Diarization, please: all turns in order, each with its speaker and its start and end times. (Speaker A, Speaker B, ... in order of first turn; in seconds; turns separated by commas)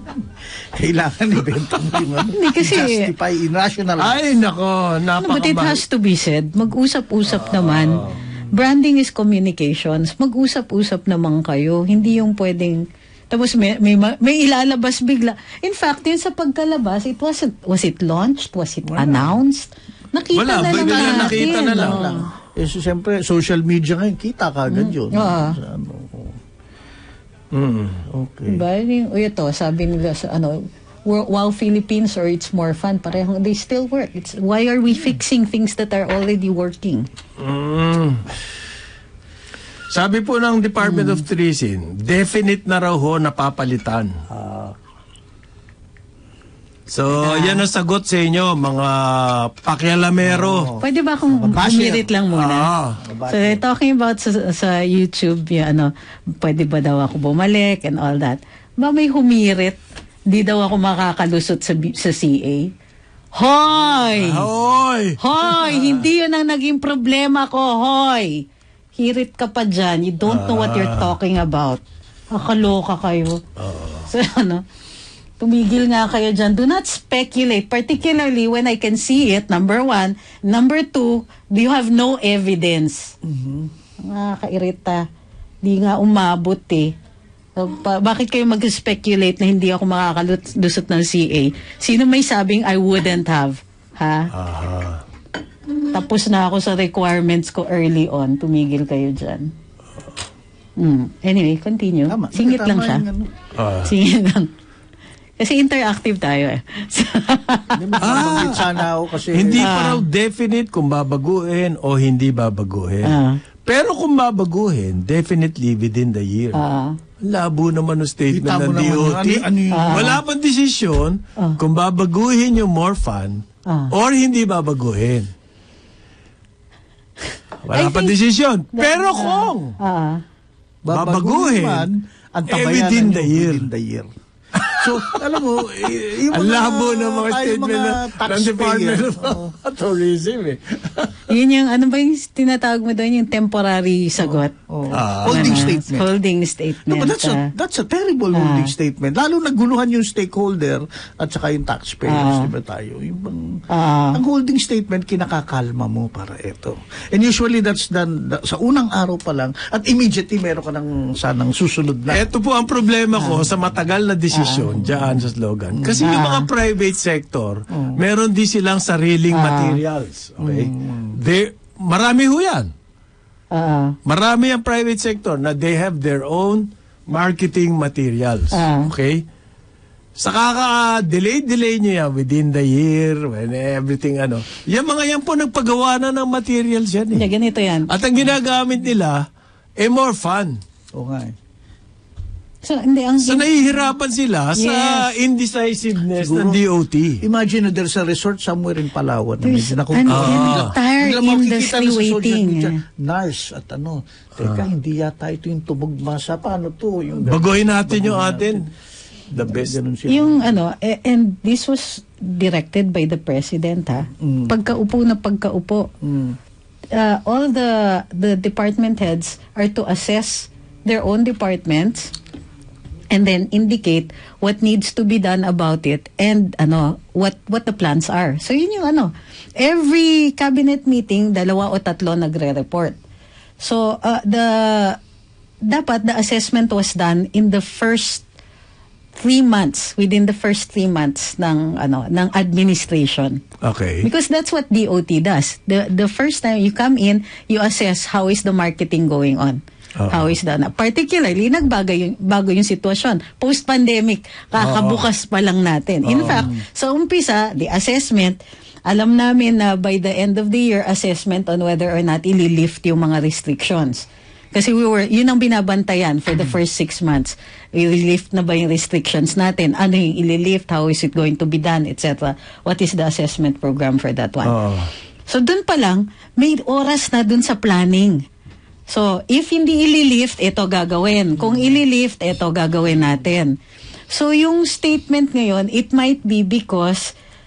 Speaker A: 0.8-4.2, Speaker B: 2.0-2.3, Speaker C: 2.3-3.1, Speaker B: 4.0-5.8, Speaker C: 5.2-22.3, Speaker B: 7.4-8.0, Speaker A: 18.8-19.4, Speaker B: 20.3-22.1, Speaker A: 20.9-26.4, Speaker C: 24.7-25.6, Speaker B: 27.5-28.0, Speaker A: 28.1-28.6, Speaker C: 28.5-37.1, Speaker B: 37.4-38.2, Speaker B: 39.9-44.3, Speaker C: 40.8-41.2, Speaker A: 44.4-44.7, Speaker B: 46.9-50.7, Speaker C: 47.2-47.6, Speaker A: 50.2-52.1, Speaker C: 50.8-52.7, Speaker B: 52.3-53.0, Speaker A: 53.0-53.6, Speaker C: 53.3-62.7, Speaker C: 63.3-64.5, Speaker B: 64.0-66.0, Speaker C: 65.2-68.4, Speaker C: 69.0-73.4, Speaker B: 70.3-71.1, Speaker B: 73.6-74.1, Speaker C: 74.0-74.6, Speaker C: 75.4-83.1, Speaker A: 83.2-83.7, Speaker C: 84.0-85.0, Speaker C: 85.6-86.9, Speaker C: 87.5-94.3, Speaker B: 94.3-95.0, Speaker C: 95.9-99.5, Speaker C: 100.8-103.0, Speaker A: 102.1-103.3, Speaker B: 103.5-103.9, Speaker C: 103.8-104.5, Speaker C: 105.4-108.2, Speaker A: 107.7-109.8, Speaker B: 108.0-108.7, Speaker B: 109.3-116.6, Speaker C: 109.6-110.0, Speaker C: 113.0-113.4, Speaker C: 116.5-117.0, Speaker B: 117.2-125.3, Speaker A: 118.3-120.2, Speaker C: 119.7-120.2, Speaker C: 123.7-123.9, Speaker B: 127.6-129.8, Speaker C: 127.7-128.1, Speaker C: 128.7-130.2, Speaker A: 130.8-134.1, Speaker B: 130.9-131.9, Speaker B: 132.5-133.7, Speaker B: 134.5-141.2, Speaker A: 134.7-139.5, Speaker C: 141.3-144.5, Speaker A: 144.2-146.1, Speaker B: 144.9-145.7, Speaker C: 145.2-147.5, Speaker A: 146.9-162.2, Speaker C: 148.3-148.7, Speaker C: 152.1-152.5, Speaker C: 153.7-154.2, Speaker B: 162.1-172.7, Speaker C: 163.2-163.5, Speaker C: 164.3-164.8, Speaker A: 165.8-166.1, Speaker C: 166.0-166.5, Speaker A: 167.7-168.0, Speaker C: 169.3-169.8, Speaker A: 170.4-171.2, Speaker C: 173.5-174.0, Speaker B: 174.1-179.2, Speaker C: 178.5-178.9, Speaker B: 180.2-187.3, Speaker C: 187.1-187.9, Speaker B: 187.9-189.2, Speaker B: 189.8-190.6, Speaker A: 190.9-191.3, Speaker C: 192.6-193.9, Speaker B: 193.2-197.2, Speaker C: 194.6-195.1, Speaker A: 196.2-196.6, Speaker A: 197.2-208.7, Speaker C: 199.4-202.7, Speaker B: 200.1-200.7, Speaker B: 204.4-204.7, Speaker B: 207.3-208.7, Speaker B: 209.3-209.8, Speaker A: 209.3-210.5, Speaker C: 210.1-215.9, Speaker A: 214.2-214.5, Speaker A: 216.0-216.4, Speaker C: 216.9-222.1, Speaker C: 223.1-233.0, Speaker C: 233.6-235.0, Speaker C: 235.6-238.2, Speaker C: 239.2-243.4, Speaker B: 243.6-244.1, Speaker C: 244.0-274.6, Speaker B: 250.0-250.3, Speaker B: 254.6-255.0, Speaker B: 256.1-256.5, Speaker A: 256.2-256.6, Speaker B: 274.4-274.9, Speaker C: 275.3-278.2, Speaker C: 278.9-283.6, Speaker C: 284.1-287.1